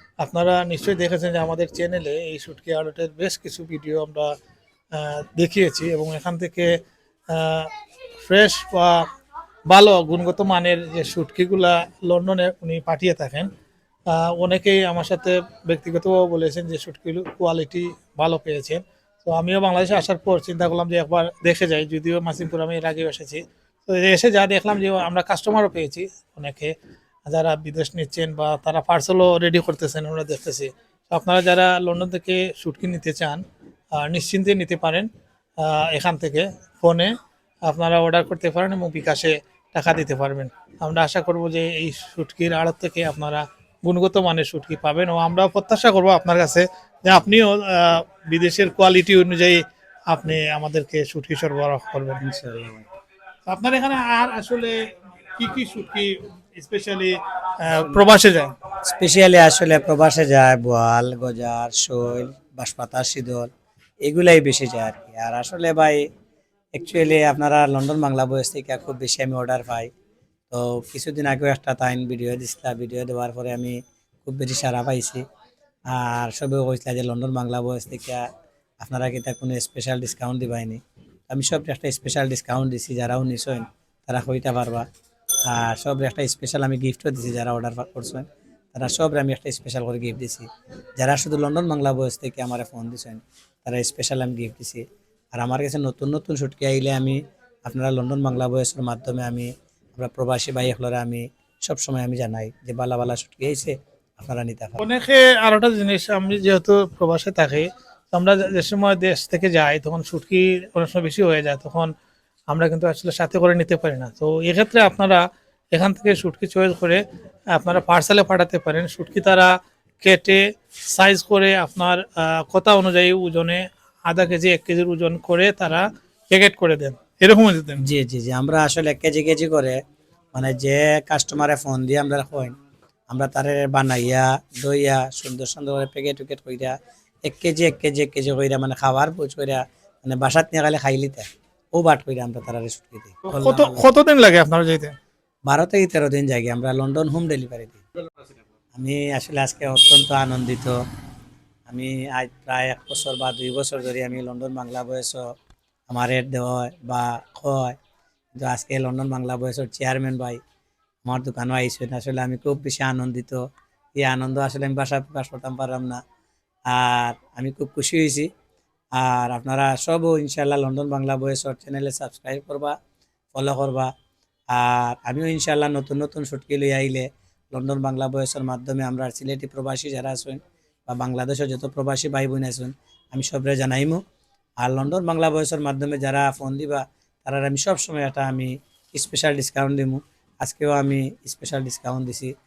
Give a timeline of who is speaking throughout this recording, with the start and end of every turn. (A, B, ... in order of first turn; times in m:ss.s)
0:00.2-0:04.3 A
0:04.9-0:06.8 A
0:07.3-0:07.7 A
0:08.2-0:09.1 A
0:09.7-0:13.5 A
0:14.1-0:26.7 A
0:27.2-0:33.4 A
0:34.0-0:37.1 A
0:37.7-0:52.2 A
0:52.2-0:52.9 B
0:53.5-0:58.5 A
0:58.8-1:03.5 B
1:04.0-1:06.0 B
1:06.7-1:09.9 B
1:10.5-1:15.2 B
1:15.9-1:18.2 B
1:18.8-1:24.9 B
1:25.4-1:30.5 B
1:31.0-1:44.8 B
1:44.8-1:51.9 A
1:52.5-1:55.2 A
1:55.7-2:07.8 A
2:07.8-2:09.8 B
2:10.3-2:12.5 B
2:13.1-2:23.9 B
2:23.2-2:24.9 A
2:25.5-2:27.8 B
2:28.7-2:30.8 B
2:31.7-2:35.3 B
2:35.9-2:37.8 B
2:38.3-2:40.4 B
2:41.0-2:43.4 B
2:44.0-2:46.0 B
2:46.7-2:48.3 B
2:48.9-2:52.8 B
2:53.3-2:53.9 B
2:54.5-3:04.0 B
3:04.6-3:12.3 B